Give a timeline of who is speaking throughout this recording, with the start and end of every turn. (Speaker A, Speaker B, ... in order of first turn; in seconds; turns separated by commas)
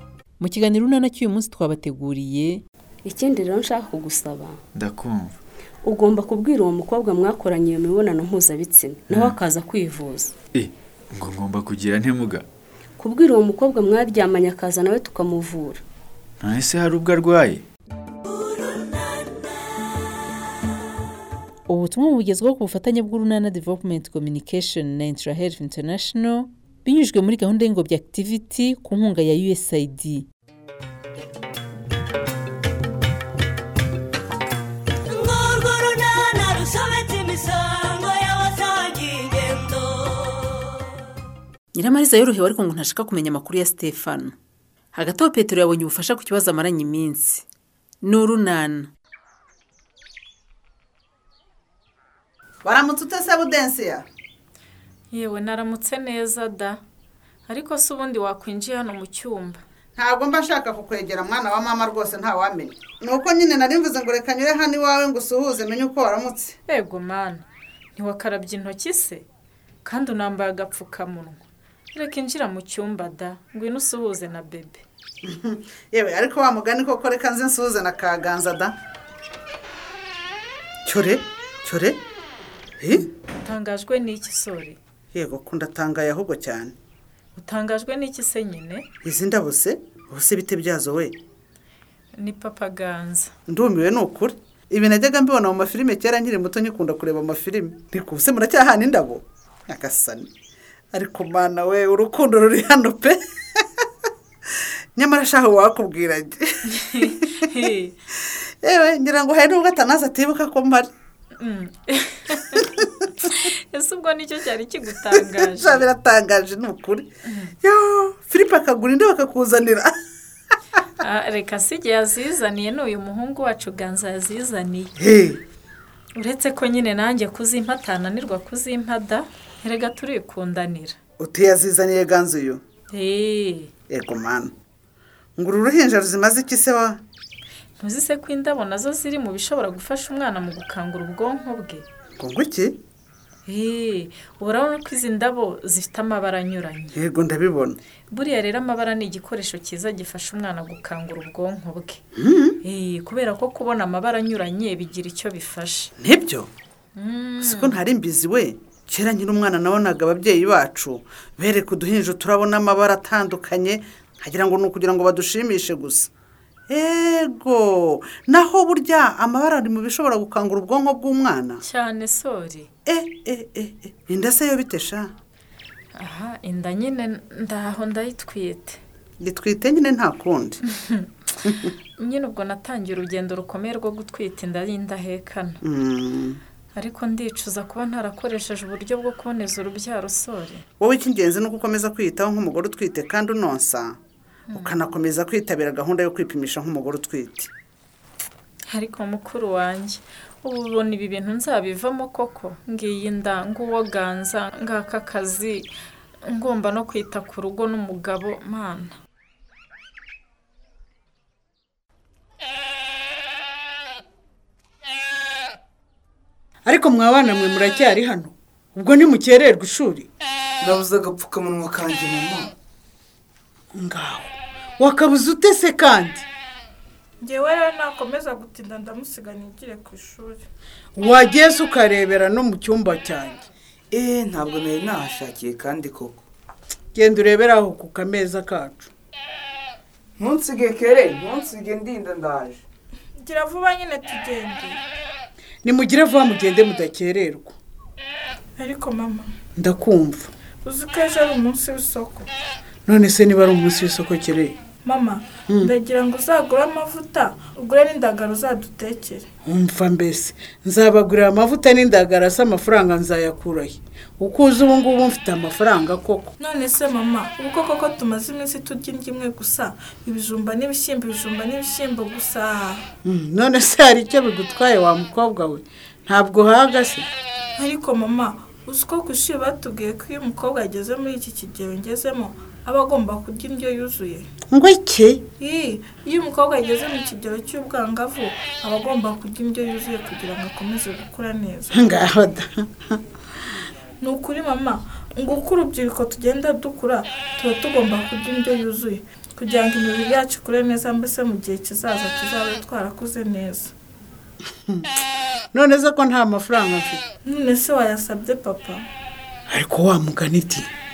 Speaker A: 0.4-2.6, Speaker B: 3.0-4.6, Speaker C: 4.7-5.3, Speaker B: 5.8-10.3, Speaker C: 9.1-9.4, Speaker C: 10.5-12.4, Speaker B: 13.0-15.8, Speaker C: 16.4-17.6, Speaker D: 18.6-19.2, Speaker A: 21.7-30.3, Speaker D: 35.1-40.7, Speaker A: 41.7-44.3, Speaker A: 44.9-47.4, Speaker A: 48.0-48.9, Speaker E: 52.6-54.0, Speaker F: 55.1-56.8, Speaker F: 57.5-59.6, Speaker E: 60.0-66.5, Speaker F: 66.7-67.4, Speaker F: 68.0-69.2, Speaker F: 69.8-71.4, Speaker F: 71.9-74.8, Speaker E: 75.2-78.7, Speaker E: 80.8-82.0, Speaker E: 82.8-83.1, Speaker F: 82.9-84.8, Speaker E: 85.1-86.7, Speaker F: 87.3-88.8, Speaker E: 89.0-91.1, Speaker F: 92.1-93.3, Speaker E: 93.5-100.3, Speaker E: 100.9-103.2, Speaker E: 105.0-107.1, Speaker F: 106.7-107.9, Speaker E: 108.6-110.9, Speaker F: 111.4-115.8, Speaker E: 115.2-117.1, Speaker F: 117.3-117.5, Speaker E: 117.6-119.9, Speaker F: 121.0-124.9, Speaker E: 125.0-125.4, Speaker F: 126.2-130.9, Speaker E: 131.2-132.6, Speaker F: 132.9-133.7, Speaker E: 133.9-134.5, Speaker E: 135.4-137.0, Speaker F: 137.8-141.8, Speaker E: 142.2-142.8, Speaker F: 143.5-146.9, Speaker E: 146.9-147.8, Speaker F: 148.1-152.0, Speaker E: 152.1-152.6, Speaker F: 152.6-155.9, Speaker E: 156.0-156.5, Speaker F: 156.9-157.8, Speaker E: 157.4-166.1, Speaker E: 166.7-171.6, Speaker F: 171.6-172.7, Speaker E: 172.8-175.1, Speaker F: 176.0-178.8, Speaker E: 179.2-180.6, Speaker F: 181.4-185.6, Speaker E: 185.6-186.4, Speaker F: 186.8-190.6, Speaker E: 190.8-194.0, Speaker F: 194.5-194.8, Speaker E: 194.5-197.5, Speaker F: 198.7-205.7, Speaker F: 206.3-208.9, Speaker G: 216.6-220.1, Speaker H: 220.6-222.5, Speaker G: 223.7-226.2, Speaker I: 227.2-230.4, Speaker G: 230.9-233.5, Speaker H: 233.9-236.2, Speaker G: 236.9-238.9, Speaker H: 240.2-242.6, Speaker I: 243.2-244.8, Speaker G: 245.6-247.5, Speaker I: 248.6-249.3, Speaker G: 249.6-250.3, Speaker I: 250.6-252.3, Speaker G: 252.8-254.6, Speaker I: 254.8-259.2, Speaker G: 259.4-266.3, Speaker I: 266.4-272.8, Speaker G: 273.0-277.1, Speaker I: 277.6-284.3, Speaker G: 284.5-285.2, Speaker I: 285.4-292.0, Speaker G: 291.9-292.4, Speaker I: 294.0-303.7, Speaker G: 305.5-307.0, Speaker I: 307.2-308.8, Speaker G: 309.5-310.7